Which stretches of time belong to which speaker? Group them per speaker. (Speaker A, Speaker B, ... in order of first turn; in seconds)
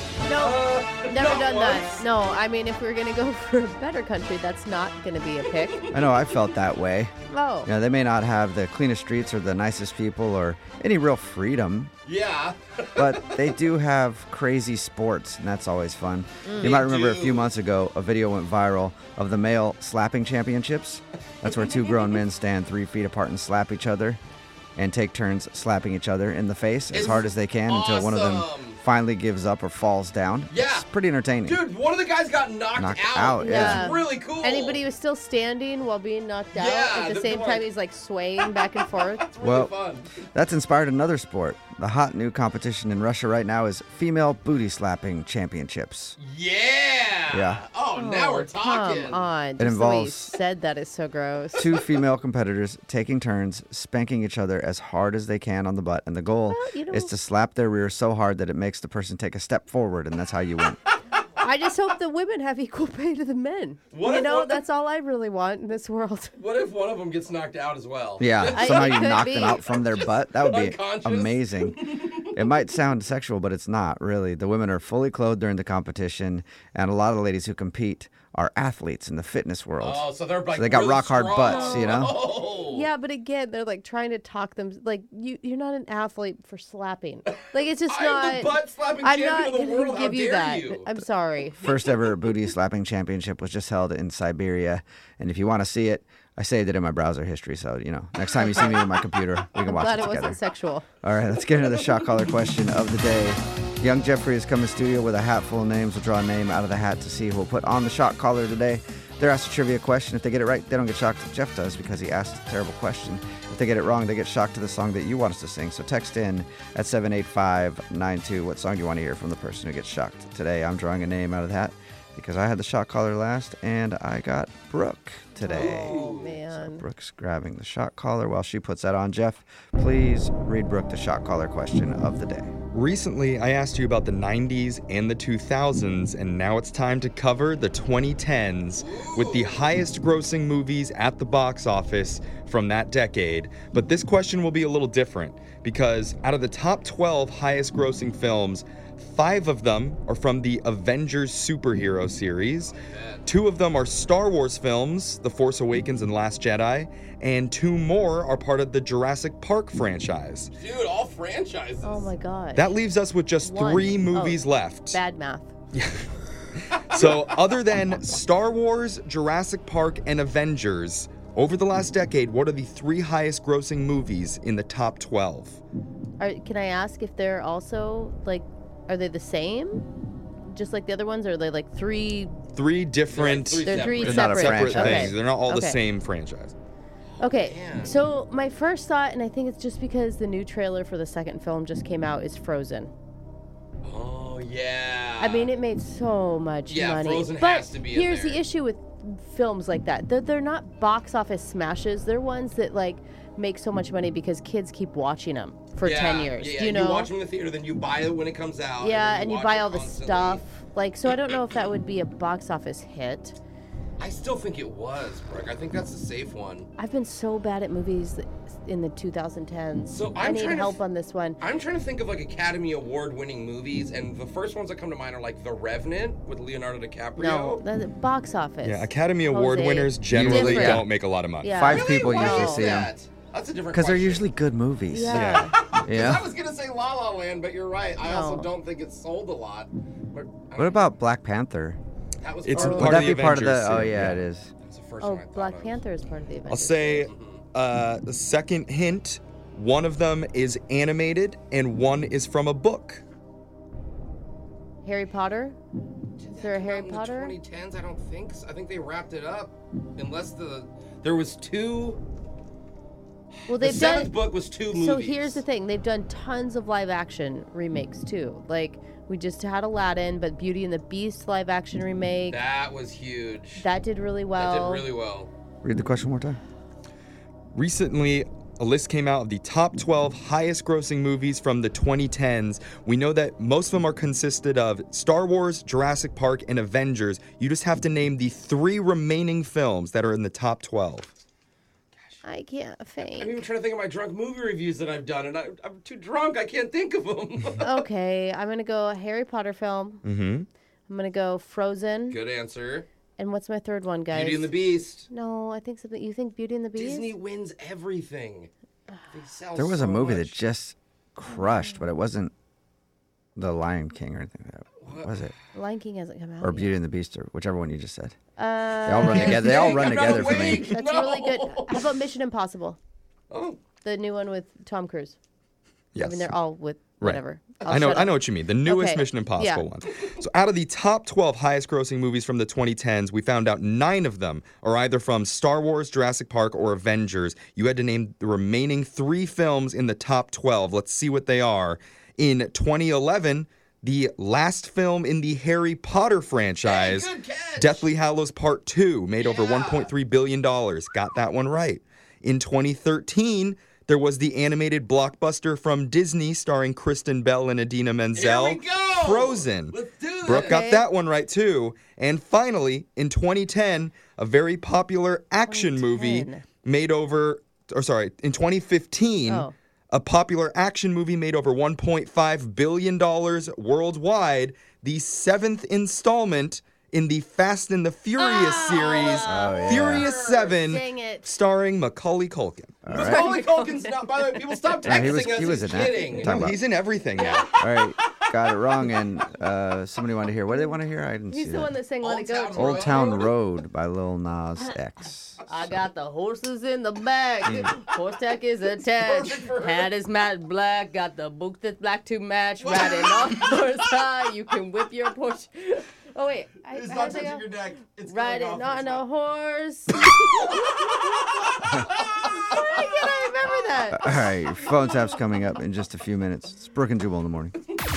Speaker A: 0.2-5.9, 7.3-7.7, 16.4-16.8, 33.4-39.2, 47.9-51.8, 56.5-57.1, 61.4-66.3, 68.5-69.6, 81.4-91.9, 98.3-98.8, 99.5-100.8, 125.4-126.8, 161.8-162.8, 163.4-165.5, 176.2-179.9, 180.5-182.3, 183.6-185.8, 187.2-192.9, 195.2-207.1, 208.8-213.4, 216.8-221.4, 227.2-230.8, 231.4-232.8, 234.9-235.5, 238.0-238.5, 242.5-243.1, 245.0-247.1, 254.8-255.6, 256.4-257.4, 263.5-264.1, 264.7-272.4, 273.6-274.9, 292.2-293.4, 297.6-300.0, 300.9-302.2, 303.2-304.5, 305.1-307.1, 311.3-311.8, 315.5-316.8, 318.4-322.8, 323.8-325.2, 326.0-329.7, 360.3-360.9, 365.5-366.4, 369.3-369.5, 378.2-381.3, 383.0-385.2, 391.3-393.2, 395.4-407.4, 408.0-414.6
Speaker B: 0.3-2.0, 5.7-6.0, 12.0-13.4, 16.6-17.5, 26.9-28.8, 30.5-30.9, 31.4-34.8, 36.5-37.7, 38.4-40.2, 46.2-49.3, 63.9-64.6, 66.3-72.3, 79.8-82.9, 87.3-90.9, 125.5-126.3, 138.8-139.6, 152.6-153.2, 160.5-162.1, 166.9-167.5, 183.1-184.4, 187.2-187.9, 193.8-195.5, 196.7-198.4, 205.8-210.4, 214.0-216.7, 219.9-220.8, 221.4-227.6, 231.6-234.3, 235.5-240.8, 242.2-242.9, 244.6-245.8, 247.1-247.4, 256.2-262.0, 263.5-265.4, 272.3-273.6, 274.3-275.3, 293.0-297.9, 302.1-302.9, 304.1-305.1, 306.8-308.5, 309.1-310.4, 314.8-315.2, 319.0-321.9, 323.3-323.6, 346.6-347.9, 349.2-349.9, 358.1-360.7, 378.9-379.3, 379.9-380.6, 382.9-386.5, 387.1-387.9, 392.0-393.4, 399.0-399.9, 402.6-403.6, 406.7-409.0
Speaker C: 5.9-11.9, 12.9-24.2, 24.8-31.6, 32.7-33.9, 39.4-39.7, 40.3-46.2, 47.3-47.6, 49.6-50.3, 51.5-60.8, 68.2-82.2, 91.6-100.4, 101.0-132.5, 184.0-185.1, 230.1-230.8, 231.5-232.9, 233.7-236.2, 240.6-241.8, 242.6-244.5, 275.6-276.4, 309.6-312.3, 313.4-315.3, 316.4-318.1, 318.9-320.7, 379.2-380.1, 382.8-383.2, 384.8-386.6, 387.6-391.8, 392.5-395.4, 413.9-417.5
Speaker D: 132.7-152.7, 153.3-160.5, 162.5-165.0, 165.7-166.0, 166.7-175.6, 182.5-186.5, 228.6-231.6, 235.1-235.5, 242.4-244.2, 246.5-253.0, 277.5-291.1, 300.0-300.5, 325.9-326.3, 327.0-382.9, 386.1-387.4